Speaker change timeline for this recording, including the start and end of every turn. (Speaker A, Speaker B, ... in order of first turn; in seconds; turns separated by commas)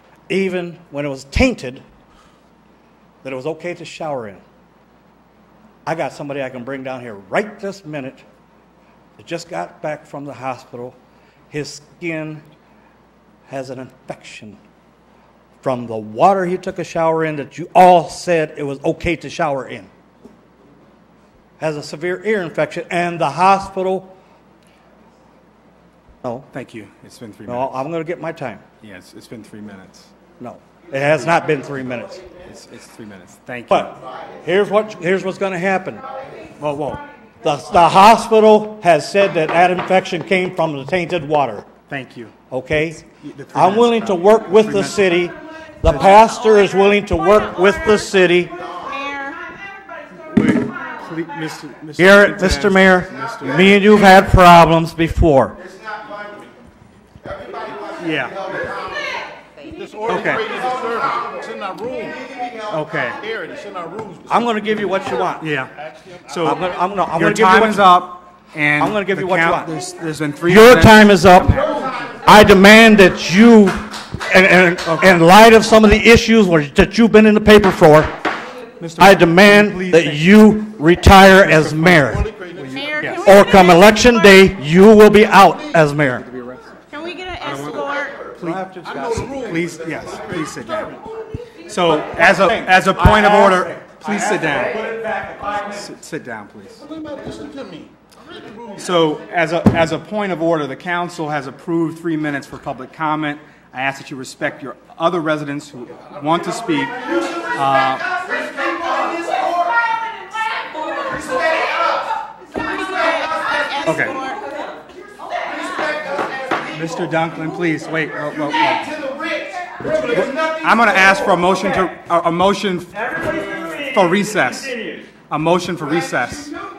Speaker A: 0.3-1.8, Speaker A: 3.2-4.4, Speaker A: 5.9-8.2, Speaker A: 9.2-11.0, Speaker A: 11.5-12.4, Speaker A: 13.5-14.6, Speaker A: 15.6-19.9, Speaker A: 21.6-24.1, Speaker B: 26.5-27.8, Speaker A: 27.5-28.6, Speaker B: 28.8-30.1, Speaker A: 30.4-32.2, Speaker B: 32.5-34.0, Speaker A: 33.7-36.0, Speaker B: 36.6-37.0, Speaker A: 37.4-41.7, Speaker B: 41.9-42.3, Speaker A: 42.5-43.0, Speaker B: 43.0-45.3, Speaker A: 43.5-48.6, Speaker B: 45.8-46.3, Speaker C: 46.5-47.8, Speaker C: 48.8-49.7, Speaker B: 50.2-54.1, Speaker A: 52.0-55.6, Speaker B: 57.9-58.5, Speaker D: 59.8-62.3, Speaker B: 60.1-60.6, Speaker B: 62.7-63.2, Speaker D: 63.3-64.2, Speaker A: 64.3-65.5, Speaker B: 65.4-65.7, Speaker B: 66.2-72.2, Speaker A: 66.4-68.0, Speaker A: 68.8-69.7, Speaker A: 70.5-78.1, Speaker B: 74.9-75.2, Speaker B: 78.8-80.3, Speaker A: 79.0-82.2, Speaker B: 81.5-82.0, Speaker D: 82.3-82.6, Speaker B: 82.5-83.4, Speaker C: 82.7-84.4, Speaker A: 83.2-86.3, Speaker B: 86.2-86.7, Speaker C: 86.9-88.2, Speaker B: 87.4-88.6, Speaker A: 88.4-89.6, Speaker D: 89.0-89.6, Speaker B: 89.4-91.0, Speaker B: 91.7-94.8, Speaker A: 91.8-95.8, Speaker B: 95.7-96.8, Speaker D: 96.9-97.9, Speaker D: 98.5-98.8, Speaker B: 98.8-108.1, Speaker C: 109.2-109.6, Speaker C: 110.2-112.0, Speaker C: 112.5-114.6, Speaker B: 113.8-114.2, Speaker B: 116.7-119.1, Speaker B: 120.0-124.8, Speaker A: 120.0-120.3, Speaker A: 123.0-125.1, Speaker B: 125.3-126.5